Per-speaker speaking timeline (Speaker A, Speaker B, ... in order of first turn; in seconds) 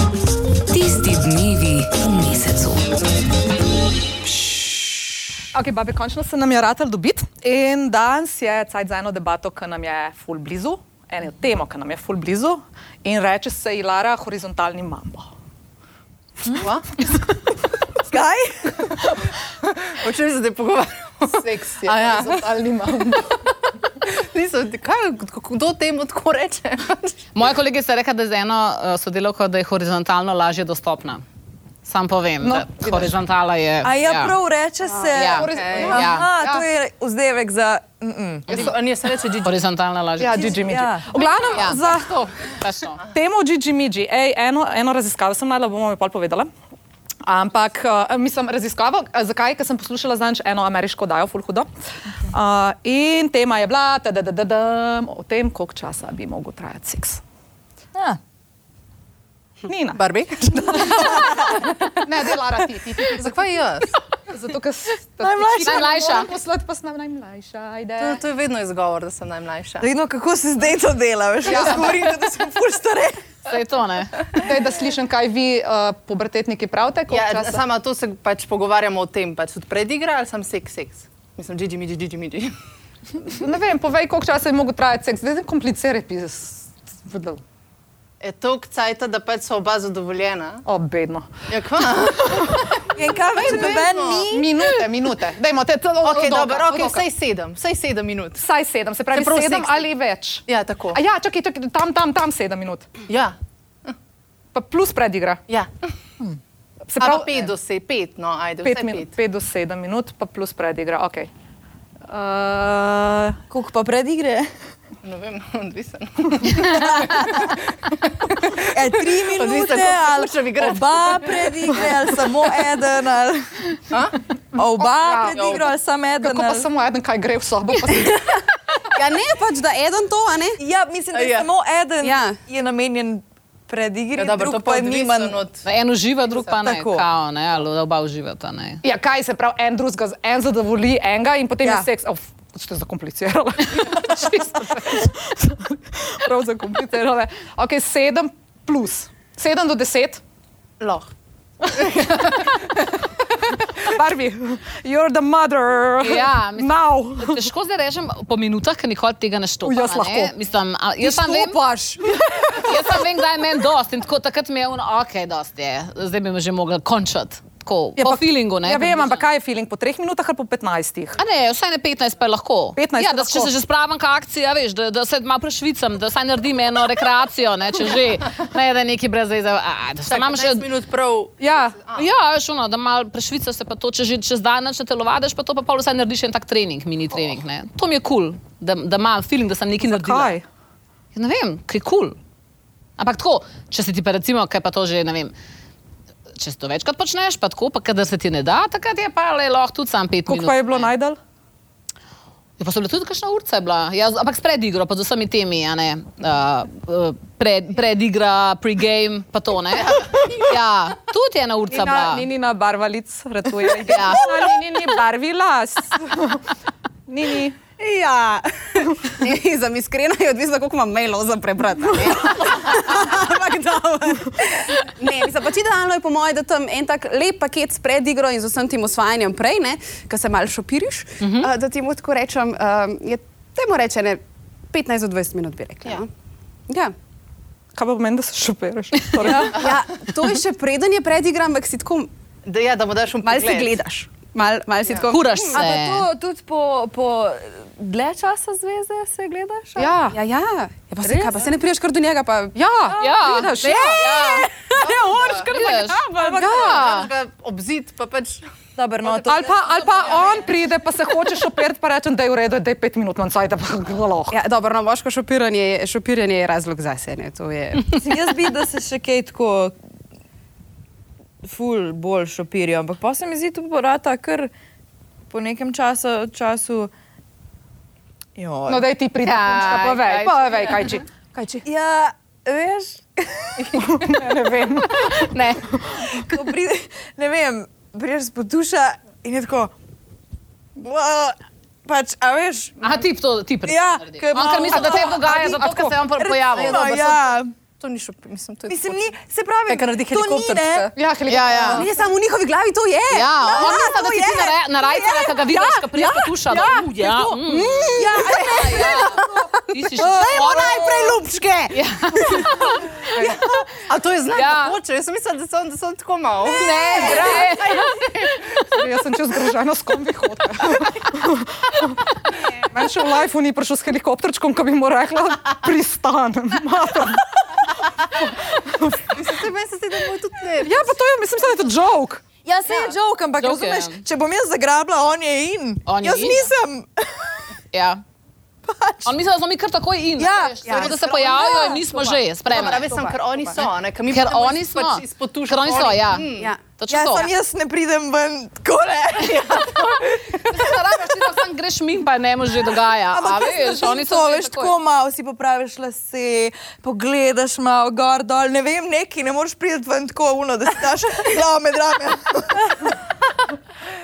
Speaker A: 0.7-2.5, 128.9-130.6, 132.0-132.4, 210.0-210.5, 217.8-236.1, 236.7-236.9, 239.4-242.1, 243.2-245.6, 250.1-252.6, 253.6-257.0, 264.3-268.0, 301.7-306.9, 307.7-312.5, 342.7-343.7, 346.3-346.6
Speaker B: 5.5-15.3, 21.2-23.4, 32.4-33.2, 35.2-36.7, 40.2-42.2, 43.1-46.5, 47.2-51.7, 52.3-57.2, 59.7-60.0, 60.6-63.3, 64.2-68.2, 71.5-72.1, 74.3-77.6, 83.2-87.4, 90.7-91.3, 94.3-97.1, 98.4-102.9, 104.5-105.4, 106.9-107.5, 108.6-111.3, 112.1-113.4, 124.5-125.7, 126.2-128.4, 138.8-150.2, 151.7-157.5, 159.6-160.3, 161.0-162.8, 168.0-171.2, 172.8-173.5, 181.4-181.8, 189.8-190.4, 200.3-201.2, 211.7-216.4, 217.1-217.6, 237.8-239.7, 249.8-250.2, 252.6-254.0, 256.4-256.8, 259.0-264.4, 278.7-281.6, 283.7-286.0, 294.7-296.0, 301.0-301.9, 318.6-329.1, 330.6-332.2
Speaker C: 16.5-16.9, 19.9-23.3, 24.0-27.2, 35.2-36.1, 38.5-39.6, 60.0-61.4, 63.0-63.9, 68.0-69.9, 77.1-82.5, 88.2-90.6, 91.5-94.3, 96.0-98.4, 99.1-99.9, 100.5-101.0, 103.1-103.9, 105.5-105.9, 107.0-109.1, 115.0-121.9, 123.9-124.2, 131.1-131.5, 134.2-135.6, 150.8-151.1, 180.1-182.1, 242.4-243.8, 244.9-245.2, 254.8-255.5, 256.3-258.4, 296.5-299.1, 299.7-300.9, 313.1-317.5, 329.1-330.9, 340.6-346.5
Speaker D: 18.1-18.9, 33.8-38.7, 40.6-41.1, 57.9-58.2, 65.2-65.9, 69.8-73.3, 92.9-94.6, 113.5-114.5, 118.6-123.6, 124.6-126.7, 130.6-135.4, 136.6-137.1, 141.6-141.9, 161.1-161.6, 239.2-239.6, 245.5-250.0, 251.0-251.3, 252.9-253.8, 258.8-260.5, 267.9-269.7, 271.4-274.5, 275.3-276.9, 278.4-278.9, 281.6-283.8, 285.7-289.7, 290.8-292.8, 293.6-295.1, 296.2-297.5, 298.7-300.9, 303.5-305.5, 307.0-309.1, 332.4-337.5, 338.6-339.2, 340.2-341.1, 346.9-350.6, 353.1-363.0
Speaker E: 27.3-31.2, 31.8-34.4, 35.1-36.3, 38.5-38.8, 39.4-40.6, 41.5-43.0, 65.6-66.3, 73.5-74.4, 135.7-138.8, 156.0-161.6, 162.6-169.3, 171.2-180.7, 181.9-190.4, 191.2-192.2, 193.0-195.3, 196.3-200.9, 202.6-212.3, 213.9-214.3, 231.2-231.5, 245.1-246.1, 253.0-254.5, 255.3-257.1, 279.2-281.0, 285.3-285.6, 292.8-296.8, 301.3-301.9, 303.1-311.0, 311.7-312.8, 314.3-314.8, 316.5-318.4, 333.4-334.0, 335.9-336.5, 337.7-338.0, 339.1-342.9, 344.1-347.3, 350.4-354.8